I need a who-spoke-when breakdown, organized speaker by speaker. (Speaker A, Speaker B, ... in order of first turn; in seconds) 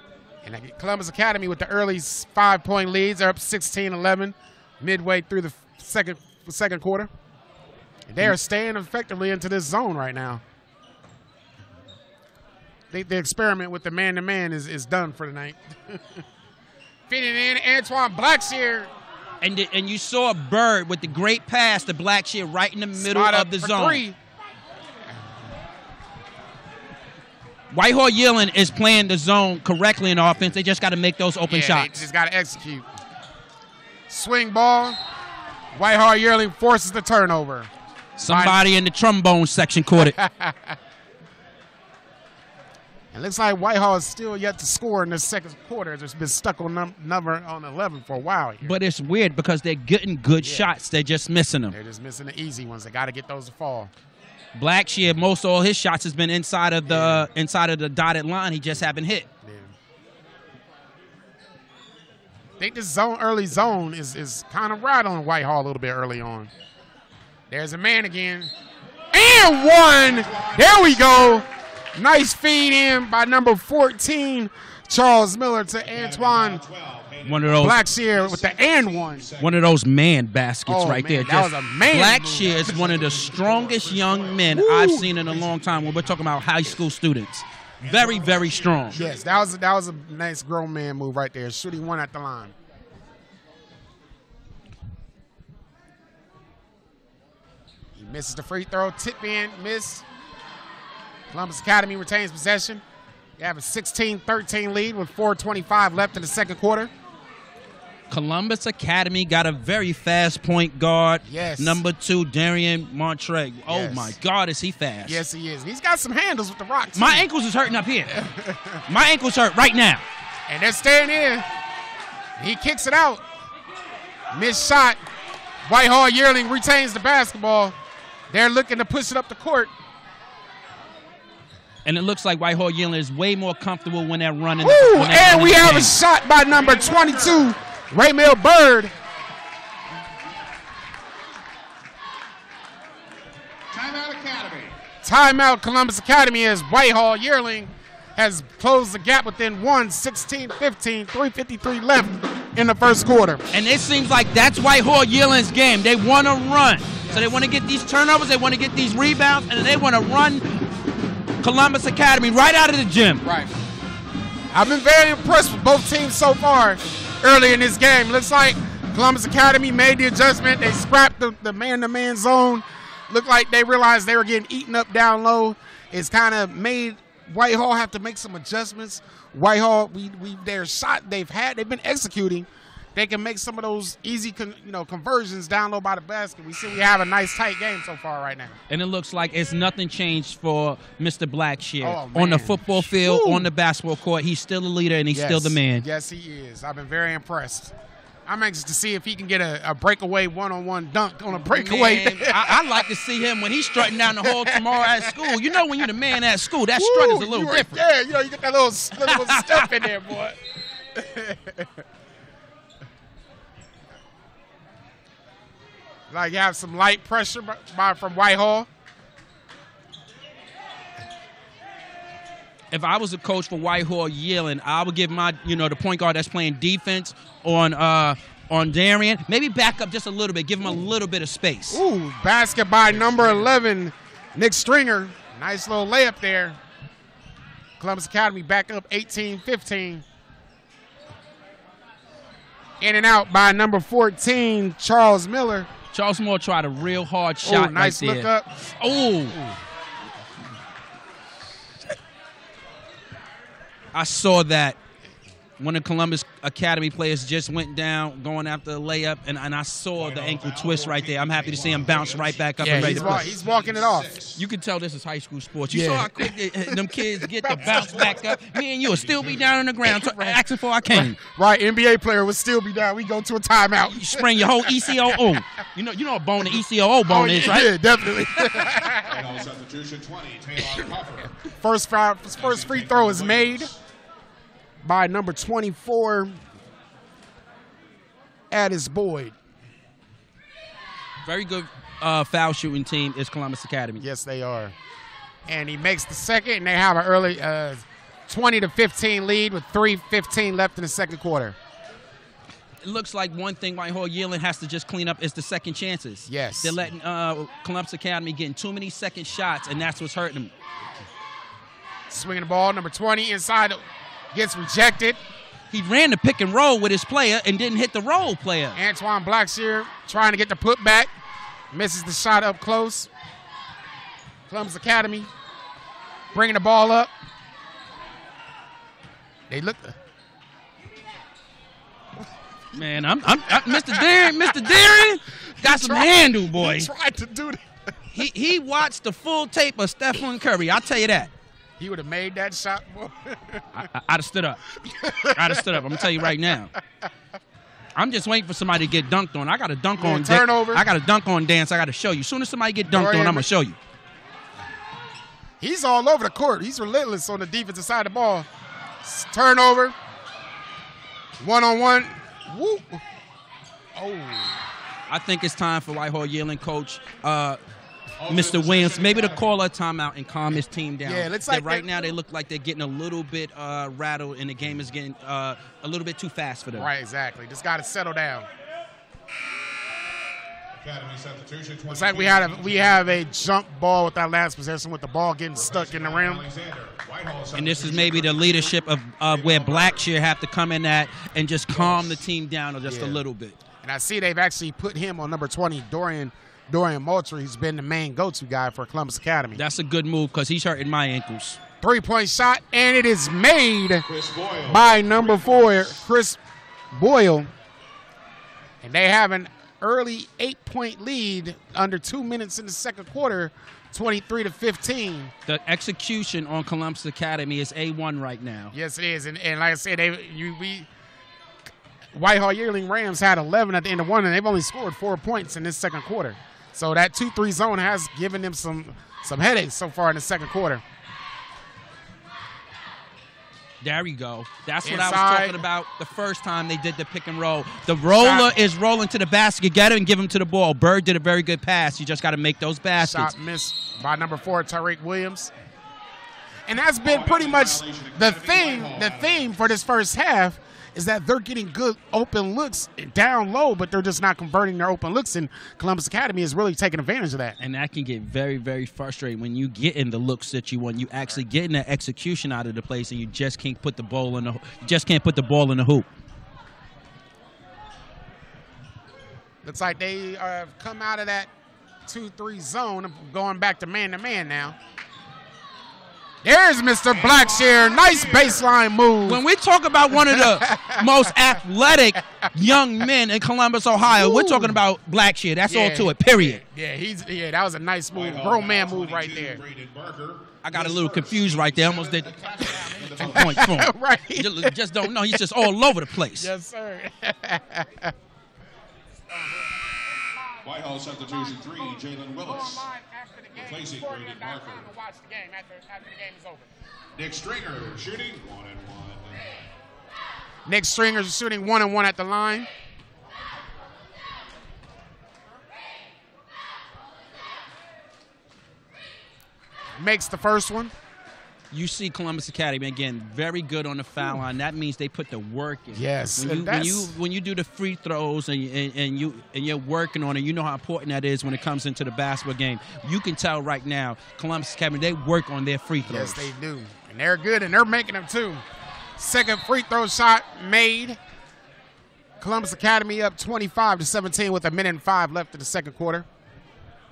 Speaker A: 0.4-7.1, 8.1-10.4, 12.9-16.2, 17.1-18.9, 23.0-24.2, 31.5-32.9, 34.1-35.0, 35.7-38.6, 40.0-40.8, 43.1-48.7, 50.4-50.8, 51.7-53.9, 56.8-57.3, 59.4-59.7, 62.6-66.5, 67.5-68.5, 69.1-76.6, 77.6-79.3, 80.7-82.8, 84.5-85.1, 88.9-92.5, 98.0-100.0, 101.3-102.8, 103.4-106.9, 111.2-111.8, 113.7-114.2, 115.0-117.3, 118.1-118.8, 120.5-121.5, 122.4-123.2, 124.3-125.0, 125.7-127.8, 128.3-129.7, 134.6-138.9, 145.0-153.4, 157.1-157.4, 163.2-163.5, 164.5-188.6, 191.8-193.5, 195.1-197.8, 198.3-202.6, 204.0-205.8, 206.8-211.8, 216.1-218.7, 231.7-236.6, 237.8-240.1, 242.8-245.7, 247.4-248.5, 262.6-264.1, 265.7-268.4, 269.9-270.4, 270.9-275.3, 277.1-279.2, 281.4-283.7, 284.8-286.4, 288.5-289.4, 294.0-294.7, 295.5-301.6, 306.3-306.8, 312.1-313.8, 314.3-315.2, 318.8-321.1, 321.7-323.1, 324.5-325.3, 326.3-327.1, 329.5-330.0, 333.5-337.6, 341.8-343.9, 344.8-346.3, 350.0-350.9, 352.9-353.5, 355.6-358.5, 359.0-359.9, 361.4-363.0, 364.0-364.6, 371.0-372.1, 376.7-378.5, 381.9-386.4, 392.9-393.2, 393.8-399.6, 401.8-404.1, 404.7-406.4, 406.9-407.5, 408.8-415.3, 418.7-420.9, 422.1-430.8, 434.8-435.6, 438.1-438.5, 443.0-445.5, 446.7-457.6, 469.6-471.5, 472.1-474.8, 476.4-479.4, 480.1-481.4, 484.1-484.8, 485.7-489.6, 492.6-495.5, 496.4-498.1, 499.3-499.6, 501.6-506.7, 510.7-512.7, 520.0-520.9, 525.9-527.1, 536.1-538.6, 539.2-541.2, 542.4-546.3
Speaker B: 19.4-24.0, 27.7-32.0, 38.2-40.1, 48.6-51.8, 54.6-59.3, 77.2-77.8, 79.4-89.0, 108.1-115.2, 117.0-118.2, 118.9-120.0, 131.8-136.0, 153.5-160.7, 161.4-163.2, 188.7-195.8, 201.3-207.8, 209.0-209.7, 222.7-231.8, 245.9-249.4, 253.9-254.8, 255.6-263.3, 264.4-271.2, 273.9-277.7, 291.2-294.0, 302.8-310.5, 315.7-318.8, 332.7-336.9, 338.1-341.3, 343.8-344.6, 345.2-346.7, 348.0-353.8, 365.1-367.6, 368.2-376.9, 387.5-393.6, 399.6-401.6, 415.5-418.7, 433.8-443.3, 457.6-466.1, 479.3-486.6, 490.6-492.3, 493.1-496.5, 521.7-536.5
Speaker C: 70.0-71.4, 75.9-79.7, 82.4-86.4, 87.8-89.3, 136.5-137.6, 143.7-144.8, 232.9-233.5, 259.9-264.4, 267.6-269.6, 278.9-281.4, 282.3-283.8, 368.2-369.5, 380.8-383.2, 385.6-390.1, 391.8-392.1, 404.1-406.0, 447.0-449.5, 477.1-478.8, 488.1-493.7, 500.6-502.9, 503.6-504.9, 507.2-509.4